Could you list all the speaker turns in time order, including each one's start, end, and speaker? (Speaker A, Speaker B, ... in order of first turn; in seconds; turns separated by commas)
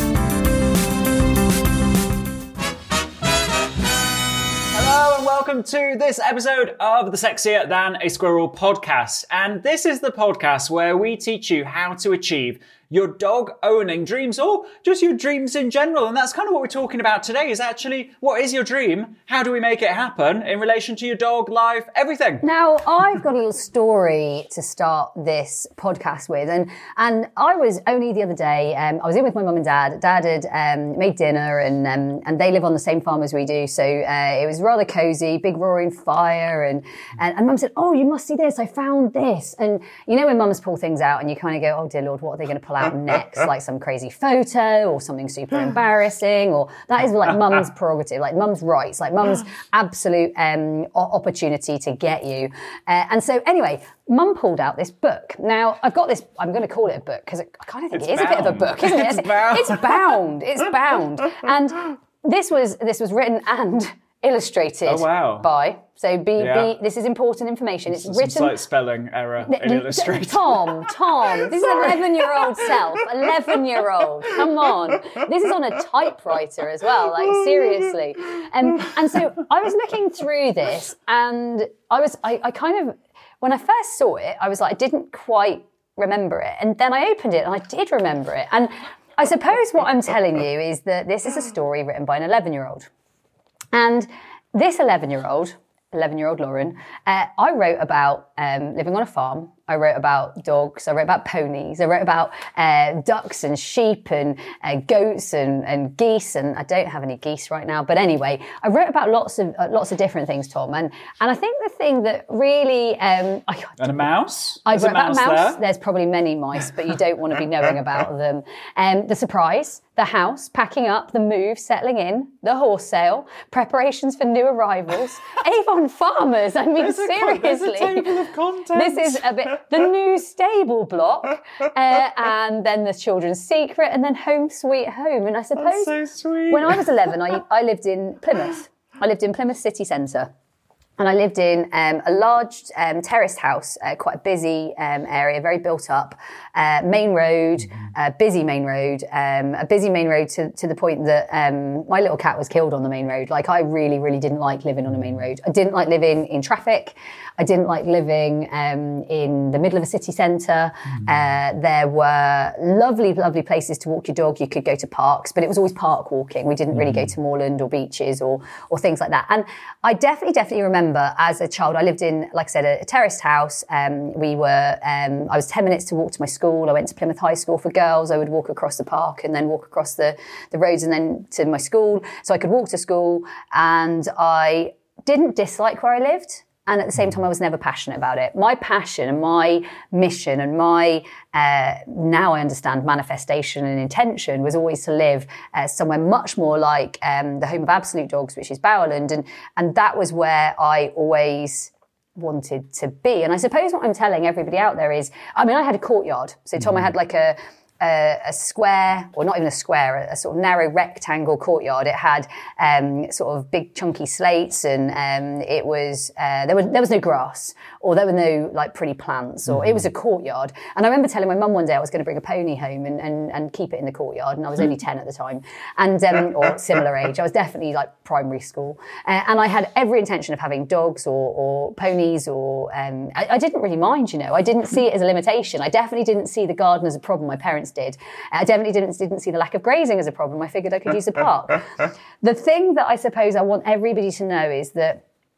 Speaker A: 4.7-22.4, Speaker B: 22.4-68.6, Speaker A: 57.9-60.0, Speaker A: 64.8-65.5, Speaker A: 66.4-66.7, Speaker A: 67.9-71.6, Speaker B: 69.5-92.9, Speaker B: 93.7-113.8, Speaker A: 113.8-115.6, Speaker B: 114.6-128.2, Speaker A: 126.8-129.3, Speaker B: 128.7-135.9, Speaker A: 135.6-136.9, Speaker B: 136.5-140.3, Speaker B: 141.0-245.0